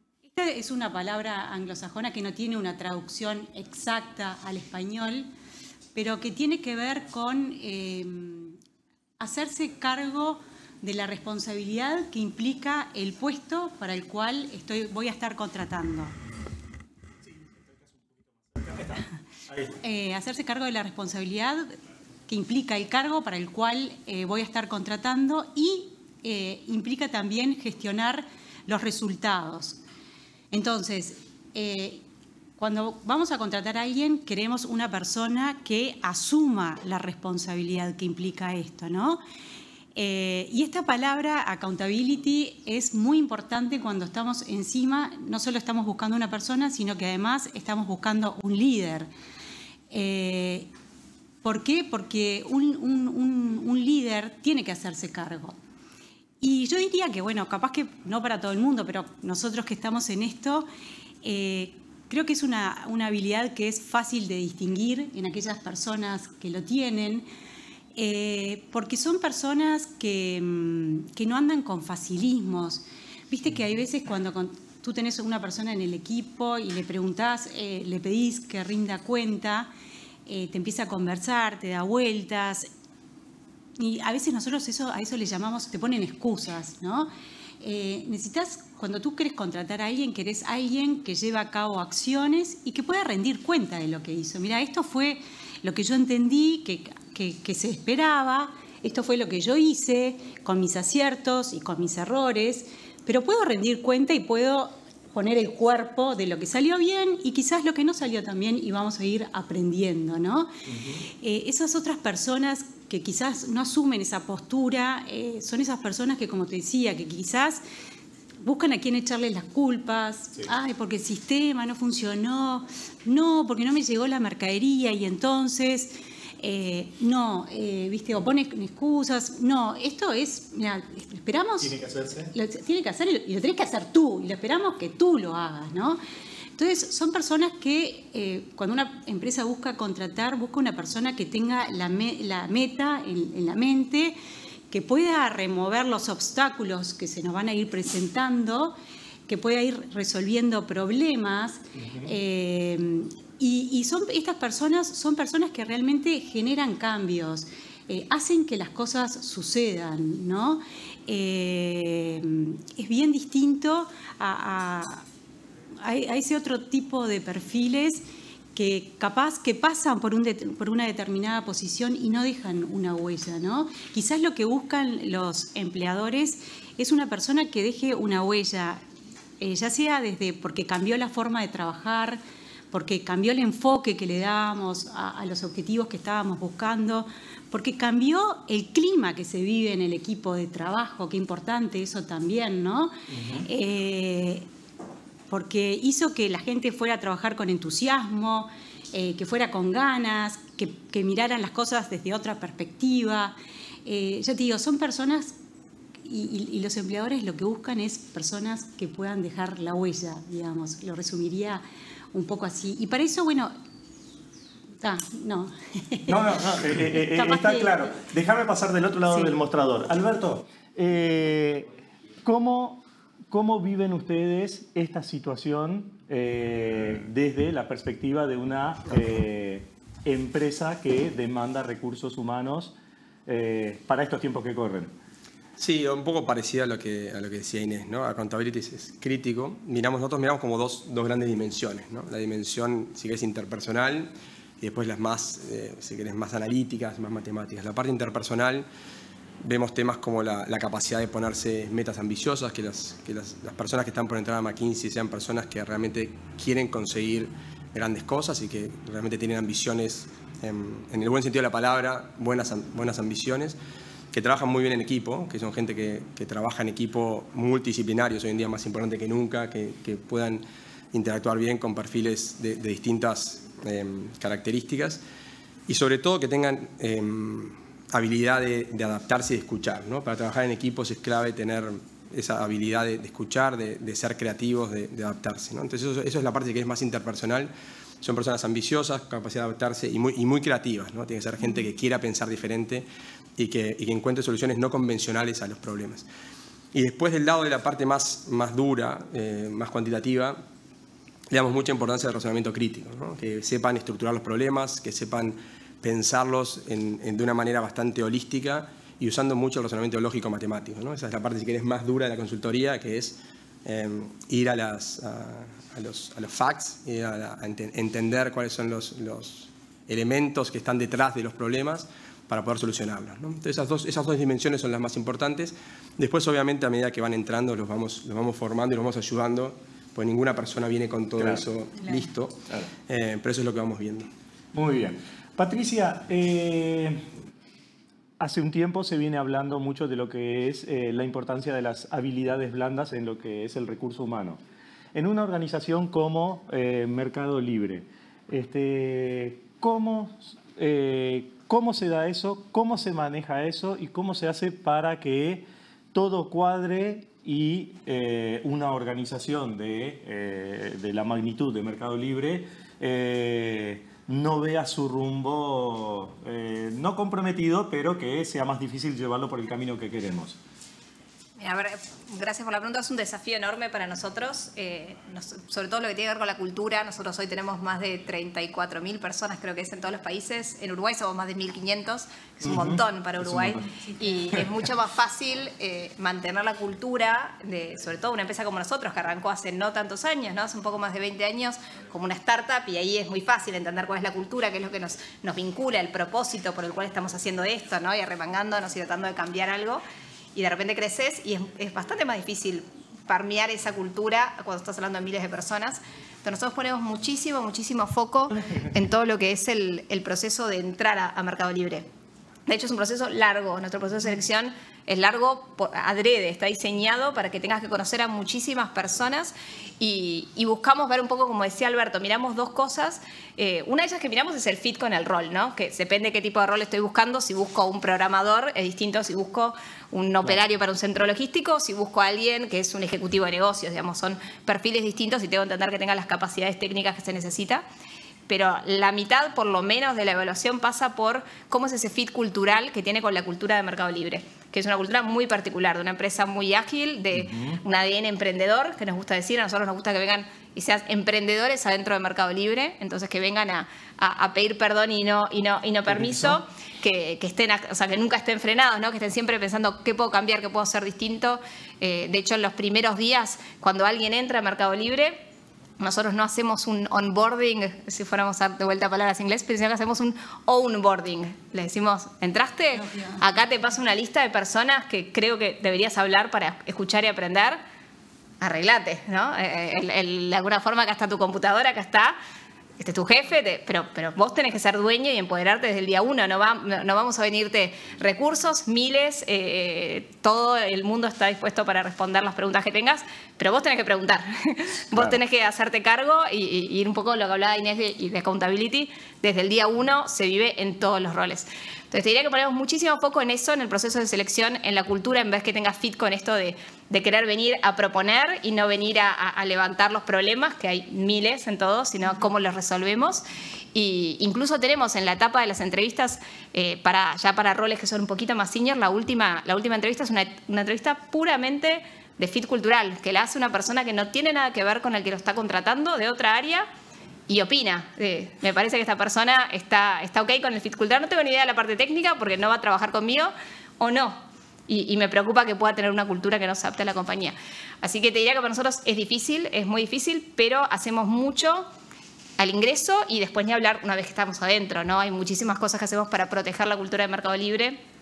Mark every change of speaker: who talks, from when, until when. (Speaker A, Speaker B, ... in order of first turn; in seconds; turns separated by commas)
Speaker A: 0.2-5.3, Speaker A: 6.0-8.6, Speaker A: 9.2-16.1, Speaker B: 18.6-19.7, Speaker A: 19.8-21.8, Speaker A: 22.3-29.8, Speaker A: 30.5-32.0, Speaker A: 32.6-39.2, Speaker A: 40.0-49.1, Speaker A: 49.9-50.7, Speaker A: 51.4-55.6, Speaker A: 56.4-60.7, Speaker A: 61.2-67.3, Speaker A: 68.0-79.7, Speaker A: 80.3-82.7, Speaker A: 83.8-110.5, Speaker B: 110.7-111.0, Speaker A: 111.0-117.6, Speaker A: 118.4-131.7, Speaker B: 131.6-132.3, Speaker A: 132.3-136.0, Speaker A: 136.6-144.2, Speaker A: 144.7-165.1, Speaker B: 151.8-152.1, Speaker A: 165.8-168.0, Speaker A: 168.6-178.8, Speaker A: 179.4-182.2, Speaker A: 182.7-194.5, Speaker B: 193.1-193.4, Speaker A: 195.3-205.3, Speaker A: 206.0-213.5, Speaker A: 214.8-216.3, Speaker B: 216.1-221.7, Speaker A: 216.9-217.9, Speaker B: 222.2-232.7, Speaker B: 233.3-234.9, Speaker C: 235.6-248.7, Speaker C: 249.4-263.6, Speaker C: 264.1-275.0, Speaker C: 275.7-296.1, Speaker C: 296.7-300.4, Speaker C: 301.3-334.1, Speaker B: 334.5-337.0, Speaker B: 338.2-344.4, Speaker B: 344.9-370.4, Speaker D: 371.4-399.8, Speaker B: 382.4-383.7, Speaker A: 383.8-384.2, Speaker D: 400.4-411.9, Speaker D: 412.5-437.6, Speaker D: 438.3-465.2, Speaker B: 447.1-447.6, Speaker B: 455.9-456.4, Speaker D: 465.8-477.6, Speaker A: 472.9-473.2, Speaker D: 478.4-482.1, Speaker D: 482.8-513.2, Speaker B: 494.9-495.2, Speaker D: 513.7-526.7, Speaker D: 527.3-541.7, Speaker D: 542.4-547.8